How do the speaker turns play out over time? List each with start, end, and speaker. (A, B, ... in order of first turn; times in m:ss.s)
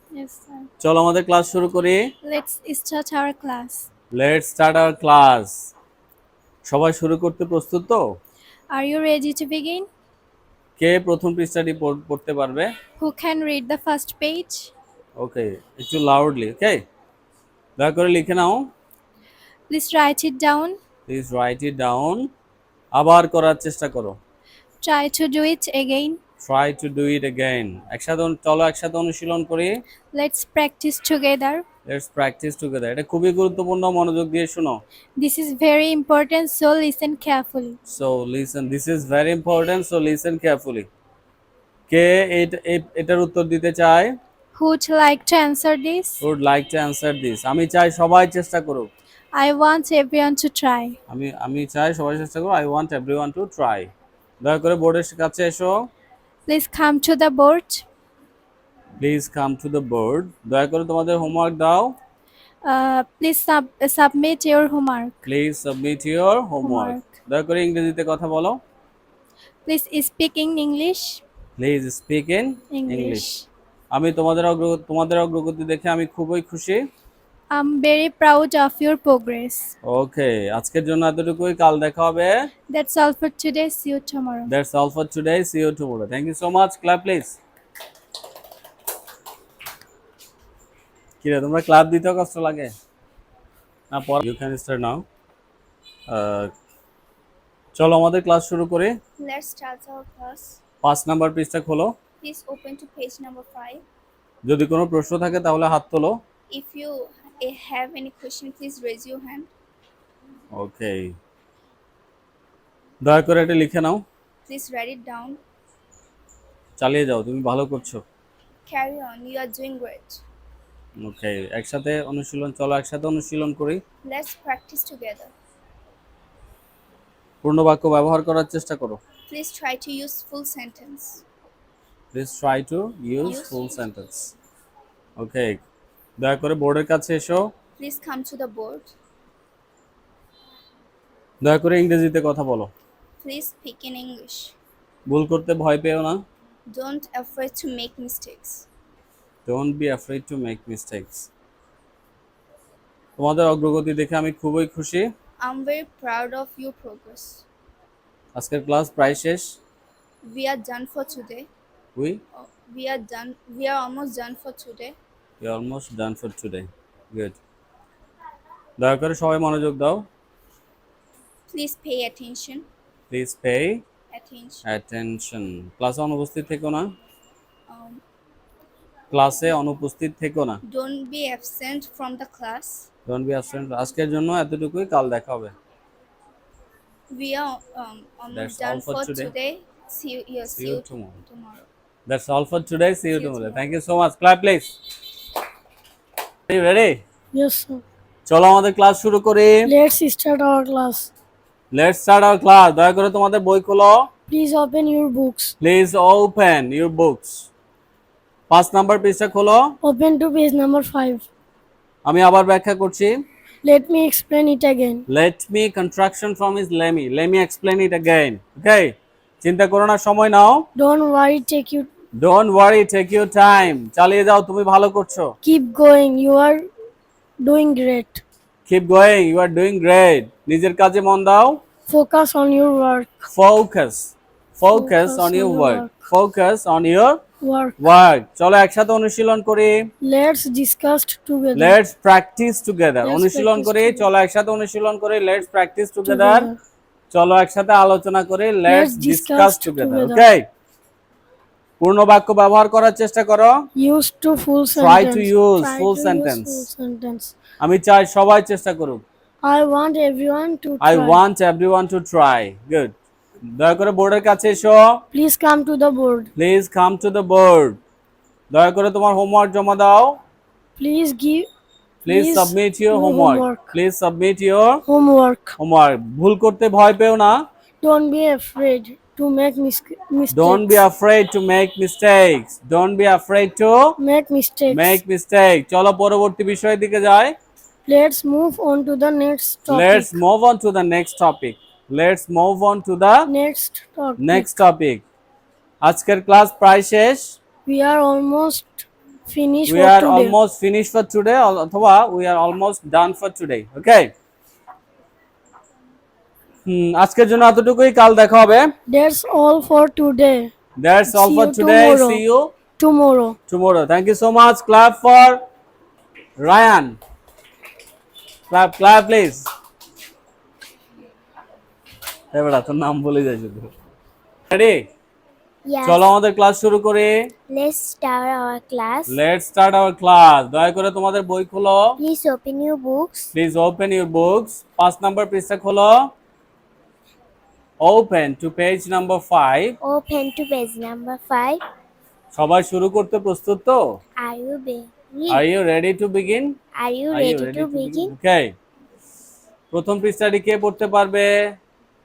0:00.1-0:00.7 A
0:00.8-0:02.1 B
0:02.2-0:03.9 A
0:04.1-0:05.7 B
0:06.6-0:08.0 B
0:08.7-0:09.9 A
0:10.8-0:12.7 B
0:13.0-0:14.7 A
0:15.2-0:16.8 B
0:17.8-0:18.7 B
0:19.7-0:20.8 A
0:21.1-0:22.3 B
0:22.9-0:24.2 B
0:24.8-0:26.2 A
0:26.4-0:29.8 B
0:30.1-0:31.6 A
0:31.9-0:34.8 B
0:35.2-0:37.8 A
0:37.9-0:40.9 B
0:41.9-0:44.2 B
0:44.6-0:46.2 A
0:46.2-0:48.9 B
0:49.4-0:51.0 A
0:51.1-0:53.9 B
0:54.4-0:55.9 B
0:56.5-0:57.8 A
0:59.0-1:02.0 B
1:02.7-1:05.2 A
1:05.2-1:08.6 B
1:06.6-1:07.1 A
1:09.7-1:11.2 A
1:11.6-1:13.3 B
1:12.7-1:13.5 A
1:13.9-1:16.9 B
1:17.5-1:19.7 A
1:19.8-1:22.3 B
1:22.7-1:24.5 A
1:24.5-1:27.4 B
1:31.2-1:32.7 B
1:33.9-1:35.0 B
1:36.1-1:36.5 B
1:37.8-1:39.0 B
1:39.2-1:40.6 C
1:39.4-1:40.2 A
1:40.8-1:41.9 B
1:42.2-1:43.8 C
1:42.4-1:43.2 A
1:44.4-1:46.2 B
1:46.5-1:49.5 C
1:46.5-1:46.9 A
1:47.8-1:49.0 A
1:50.5-1:51.2 B
1:53.0-1:54.0 B
1:54.5-1:55.4 C
1:54.6-1:55.2 A
1:56.8-1:58.0 B
1:58.7-2:00.2 C
2:01.0-2:03.8 B
2:04.0-2:05.3 C
2:07.4-2:09.0 B
2:09.3-2:11.2 C
2:09.5-2:10.5 A
2:12.1-2:14.3 B
2:13.2-2:13.8 C
2:15.2-2:15.6 B
2:16.2-2:17.5 B
2:17.8-2:18.9 C
2:17.8-2:18.4 A
2:21.4-2:22.7 B
2:23.2-2:24.4 A
2:23.2-2:24.5 C
2:25.1-2:26.2 B
2:26.7-2:28.7 C
2:26.8-2:28.2 A
2:29.5-2:31.3 B
2:33.2-2:35.1 B
2:35.4-2:37.4 C
2:35.5-2:37.1 A
2:38.4-2:39.6 B
2:40.3-2:41.5 C
2:40.3-2:41.0 A
2:42.0-2:42.2 B
2:42.4-2:45.0 C
2:42.7-2:44.7 A
2:45.4-2:47.4 B
2:48.8-2:50.1 B
2:51.5-2:52.5 A
2:51.5-2:52.7 C
2:53.1-2:53.8 B
2:54.1-2:54.6 C
2:54.6-2:56.9 B
2:57.7-2:58.0 C
2:59.1-3:00.6 B
3:00.7-3:02.8 C
3:00.9-3:01.7 A
3:03.1-3:05.6 B
3:07.1-3:11.7 C
3:08.3-3:09.3 B
3:10.4-3:11.2 B
3:12.1-3:14.8 B
3:16.5-3:17.0 B
3:17.3-3:17.8 D
3:18.3-3:19.7 B
3:19.6-3:21.1 D
3:21.7-3:24.1 B
3:24.3-3:25.6 D
3:25.6-3:27.5 B
3:28.5-3:29.7 B
3:29.8-3:31.3 D
3:32.0-3:33.2 B
3:33.6-3:35.0 D
3:35.1-3:40.6 B
3:40.8-3:41.9 D
3:42.2-3:45.3 B
3:45.4-3:46.7 D
3:47.4-3:48.2 D
3:48.7-3:51.6 B
3:51.9-3:53.3 D
3:53.3-3:57.2 B
3:54.7-3:56.1 D
3:57.4-3:57.8 D
3:57.8-3:59.9 B
4:00.0-4:01.8 D
4:01.6-4:06.5 B
4:03.0-4:04.1 D
4:06.0-4:06.6 D
4:07.1-4:10.4 B
4:08.7-4:10.3 D
4:11.8-4:13.6 B
4:13.8-4:17.4 D
4:14.7-4:16.7 B
4:17.6-4:19.0 B
4:19.4-4:21.2 D
4:20.8-4:23.0 B
4:23.5-4:25.0 B
4:25.1-4:26.3 D
4:26.4-4:27.8 B
4:28.5-4:30.2 B
4:30.8-4:31.5 D
4:32.0-4:34.8 B
4:32.1-4:33.8 D
4:34.9-4:35.6 D
4:35.6-4:37.4 B
4:37.8-4:40.8 D
4:40.3-4:44.0 B
4:44.0-4:45.0 D
4:44.7-4:47.4 B
4:47.9-4:50.2 D
4:49.7-4:53.3 B
4:53.3-4:54.5 D
4:54.2-4:55.0 B
4:55.8-4:57.4 B
4:57.7-5:00.4 D
4:59.7-5:04.1 B
5:06.7-5:08.7 B
5:08.9-5:10.5 D
5:10.8-5:12.5 B
5:11.0-5:12.2 D
5:12.8-5:13.4 D
5:13.5-5:15.4 B
5:16.4-5:17.0 B
5:18.5-5:19.5 B
5:22.3-5:23.7 B
5:24.5-5:24.9 B
5:25.7-5:26.1 E
5:25.8-5:27.3 B
5:27.5-5:29.2 E
5:29.1-5:32.0 B
5:32.0-5:33.3 E
5:33.3-5:36.1 B
5:37.8-5:39.8 B
5:39.8-5:41.6 E
5:42.3-5:43.8 B
5:44.2-5:45.4 E
5:45.3-5:46.6 B
5:46.8-5:48.1 E
5:47.1-5:48.6 B
5:49.7-5:51.3 B